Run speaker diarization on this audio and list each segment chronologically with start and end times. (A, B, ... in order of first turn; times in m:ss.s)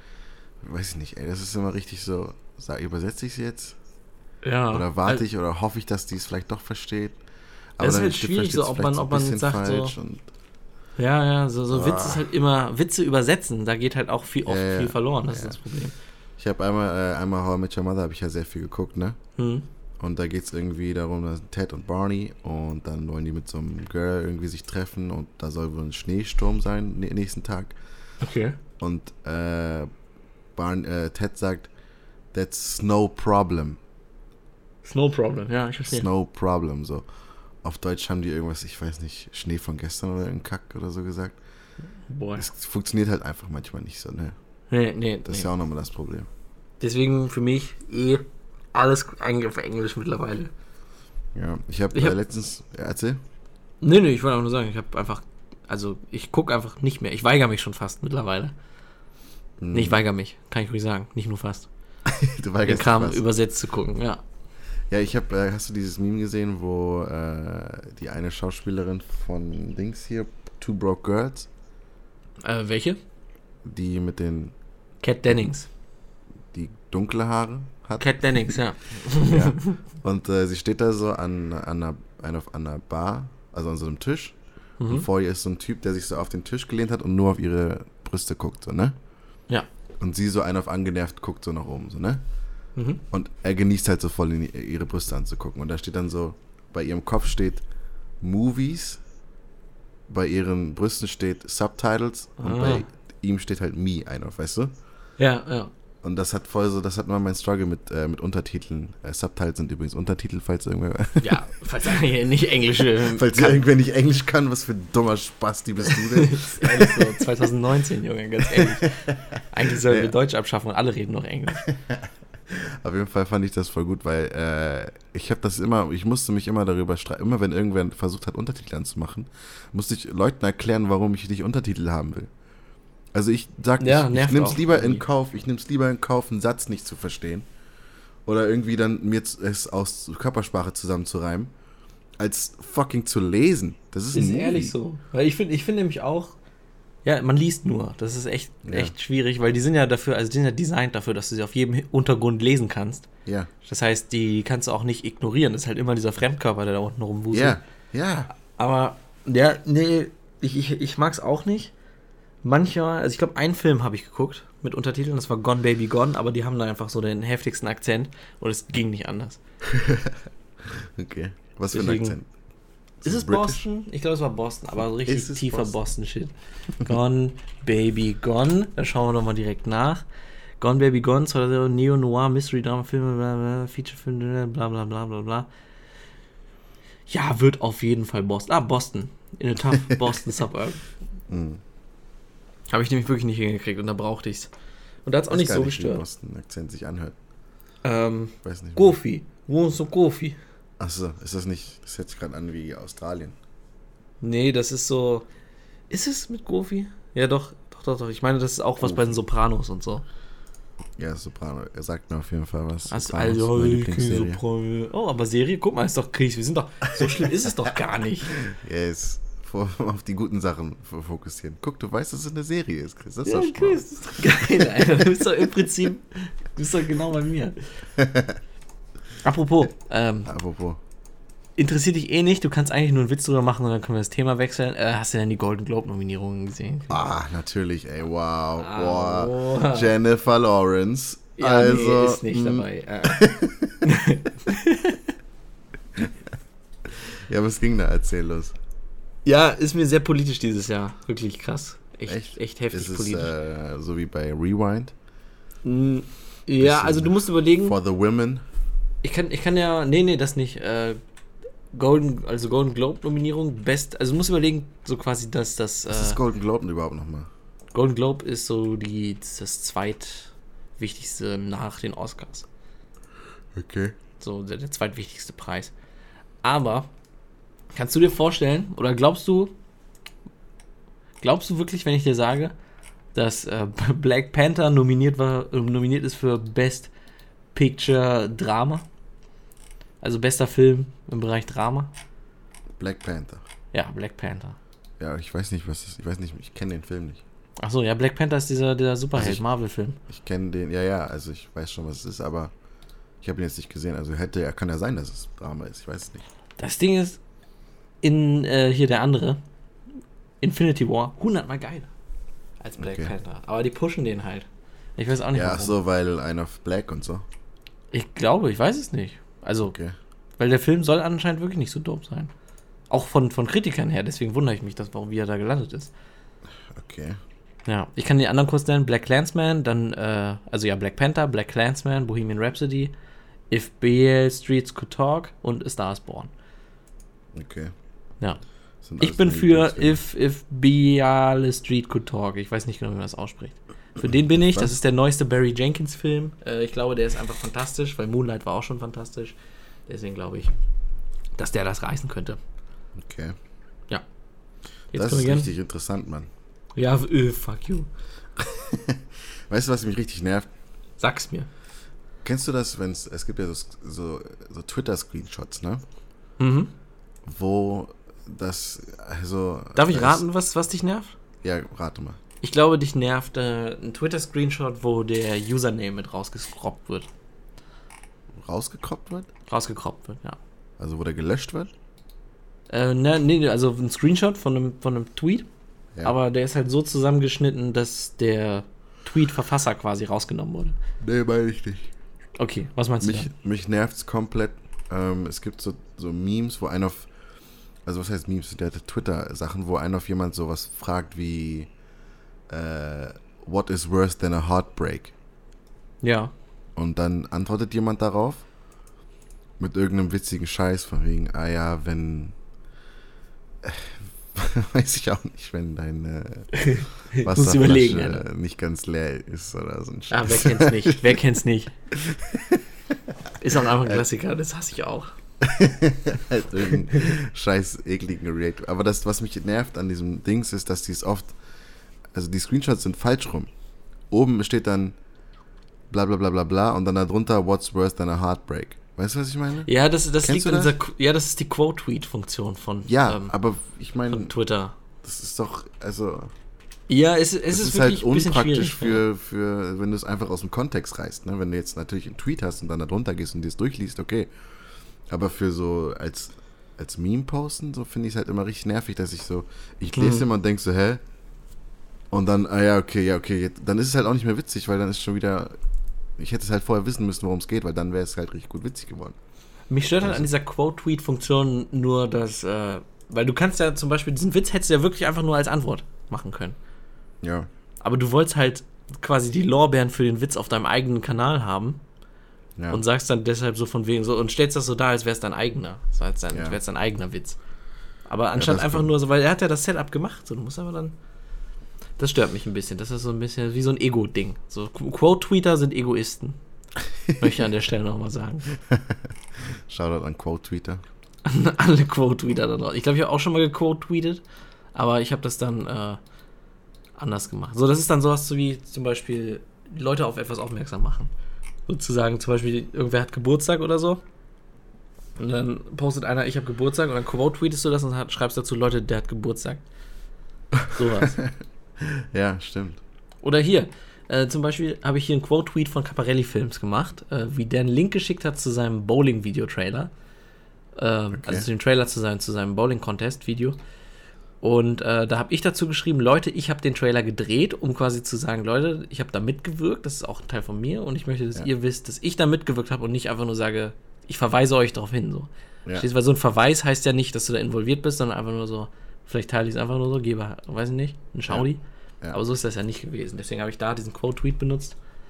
0:00.6-0:03.8 A
0:04.4-0:05.2 B
0:04.7-0:07.2 A
0:07.8-0:10.3 A
0:07.8-0:09.9 B
0:11.0-0:15.9 B
0:11.7-0:12.3 A
0:14.5-0:15.6 A
0:16.4-0:19.2 A
0:19.4-0:19.6 B
0:20.0-0:27.8 A
0:28.2-0:28.6 B
0:28.8-0:29.9 A
0:30.6-0:31.7 A
0:32.3-0:33.8 A
0:34.8-0:36.1 B
0:35.9-0:37.0 A
0:37.6-0:41.4 A
0:42.1-0:42.5 B
0:42.4-0:44.4 A
0:44.7-0:45.5 B
0:45.2-0:46.3 A
0:46.8-0:50.5 B
0:51.4-0:53.2 A
0:53.8-0:58.5 B
0:59.6-1:00.0 A
0:59.7-1:01.7 B
1:02.1-1:03.3 A
1:02.6-1:04.2 B
1:04.9-1:11.5 A
1:12.4-1:13.0 B
1:13.6-1:14.5 A
1:15.0-1:15.7 B
1:16.5-1:18.6 A
1:18.0-1:19.8 B
1:19.2-1:29.0 A
1:24.8-1:25.1 B
1:30.0-1:32.2 A
1:32.8-1:33.0 B
1:33.1-1:37.6 A
1:38.2-1:39.0 A
1:40.1-1:44.7 A
1:42.4-1:42.9 B
1:45.2-1:45.7 B
1:46.0-1:51.4 A
1:51.2-1:53.6 B
1:53.0-1:57.2 A
1:56.0-2:01.7 B
1:58.5-1:59.2 A
1:59.7-2:00.1 A
2:01.6-2:12.3 A
2:13.1-2:17.5 A
2:13.8-2:15.0 B
2:18.3-2:21.5 A
2:22.2-2:24.7 A
2:24.1-2:26.4 B
2:27.0-2:33.1 B
2:28.6-2:28.9 A
2:33.3-2:33.5 A
2:33.6-2:37.6 B
2:37.3-2:38.3 A
2:38.4-2:41.7 B
2:42.4-2:49.4 B
2:49.6-2:52.3 A
2:51.7-2:52.2 B
2:53.0-2:53.6 A
2:53.0-3:00.0 B
2:55.0-2:55.7 A
3:00.6-3:05.5 B
3:07.1-3:10.8 B
3:11.3-3:11.6 A
3:12.7-3:14.5 B
3:15.0-3:16.0 B
3:15.3-3:17.2 A
3:17.8-3:20.4 B
3:18.4-3:19.0 A
3:20.8-3:23.4 A
3:24.2-3:25.3 B
3:25.9-3:30.0 B
3:28.8-3:29.2 A
3:31.0-3:34.4 A
3:32.9-3:38.4 B
3:38.3-3:45.1 A
3:43.3-3:47.6 B
3:48.0-3:48.4 A
3:49.2-3:50.3 B
3:50.3-3:50.8 A
3:51.6-3:57.0 B
3:56.9-4:03.8 A
3:58.6-3:59.9 B
4:01.4-4:03.3 B
4:03.8-4:05.0 B
4:06.9-4:08.6 A
4:09.2-4:13.3 B
4:12.1-4:14.9 A
4:15.6-4:17.8 B
4:16.6-4:18.4 A
4:19.0-4:21.0 B
4:21.7-4:26.2 B
4:25.9-4:27.3 A
4:27.7-4:32.5 B
4:33.6-4:34.0 A
4:34.2-4:35.7 B
4:36.4-4:36.9 B
4:37.7-4:39.5 B
4:41.2-4:42.6 B
4:43.2-4:46.9 B
4:47.6-4:48.8 B
4:50.0-4:51.9 B
4:52.8-4:53.4 A
4:53.7-4:54.6 B
4:55.0-4:57.2 A
4:57.6-5:00.0 B
4:59.1-4:59.4 A
5:00.1-5:02.5 A
5:03.2-5:06.2 A
5:06.6-5:07.2 B
5:08.0-5:09.4 B
5:10.4-5:11.9 B
5:12.6-5:15.8 B
5:12.8-5:13.1 A
5:15.3-5:17.2 A
5:17.9-5:19.8 B
5:19.6-5:20.0 A
5:20.4-5:22.3 B
5:22.9-5:25.9 B
5:26.7-5:27.2 A
5:27.7-5:32.9 B
5:33.5-5:36.3 B
5:37.3-5:37.7 A
5:38.8-5:40.0 A
5:39.0-5:50.5 B
5:44.0-5:44.7 A
5:51.4-5:52.4 B
5:53.0-5:53.4 A
5:54.9-5:55.5 B
5:54.9-5:56.3 A
5:56.8-5:57.9 B
5:58.4-6:00.5 A
6:01.0-6:01.5 B
6:02.2-6:05.8 A
6:06.4-6:06.7 B
6:07.2-6:10.2 A
6:09.8-6:11.1 B
6:11.4-6:12.2 A
6:12.4-6:17.1 B
6:18.4-6:19.3 A
6:19.5-6:20.4 B
6:20.8-6:21.7 A
6:22.7-6:25.5 B
6:26.0-6:30.8 B
6:31.0-6:31.9 A
6:32.4-6:33.3 B
6:33.0-6:37.1 A
6:37.8-6:41.7 A
6:42.5-6:45.1 A
6:46.0-6:46.3 B
6:46.8-6:48.4 A
6:49.6-6:52.4 A
6:53.6-7:01.1 A
6:56.5-6:58.2 B
7:00.1-7:01.7 B
7:01.9-7:02.6 A
7:03.4-7:05.1 B
7:03.8-7:04.0 A
7:05.4-7:11.4 A
7:12.1-7:13.5 A
7:14.1-7:15.0 A
7:15.9-7:20.8 A
7:19.7-7:23.3 B
7:22.8-7:24.3 A
7:24.1-7:24.7 B
7:25.0-7:26.3 A
7:26.9-7:29.0 B
7:27.5-7:34.3 A
7:35.1-7:41.0 A
7:39.9-7:40.2 B
7:42.1-7:45.6 A
7:46.2-7:49.2 A
7:49.7-7:56.6 B
7:50.0-7:50.3 A
7:57.2-7:57.5 A
7:57.8-8:01.8 B
8:02.6-8:02.8 A
8:02.7-8:07.4 B
8:06.3-8:06.6 A
8:08.1-8:11.0 B
8:08.4-8:08.9 A
8:12.0-8:16.4 B
8:17.2-8:18.6 B
8:18.7-8:20.8 A
8:21.2-8:24.2 B
8:24.8-8:26.0 B
8:27.0-8:31.1 B
8:31.7-8:34.0 B
8:35.2-8:39.6 B
8:40.5-8:42.8 A
8:40.7-8:41.2 B
8:43.2-8:49.9 B
8:50.8-8:53.6 B
8:51.1-8:51.5 A
8:54.4-9:14.8 B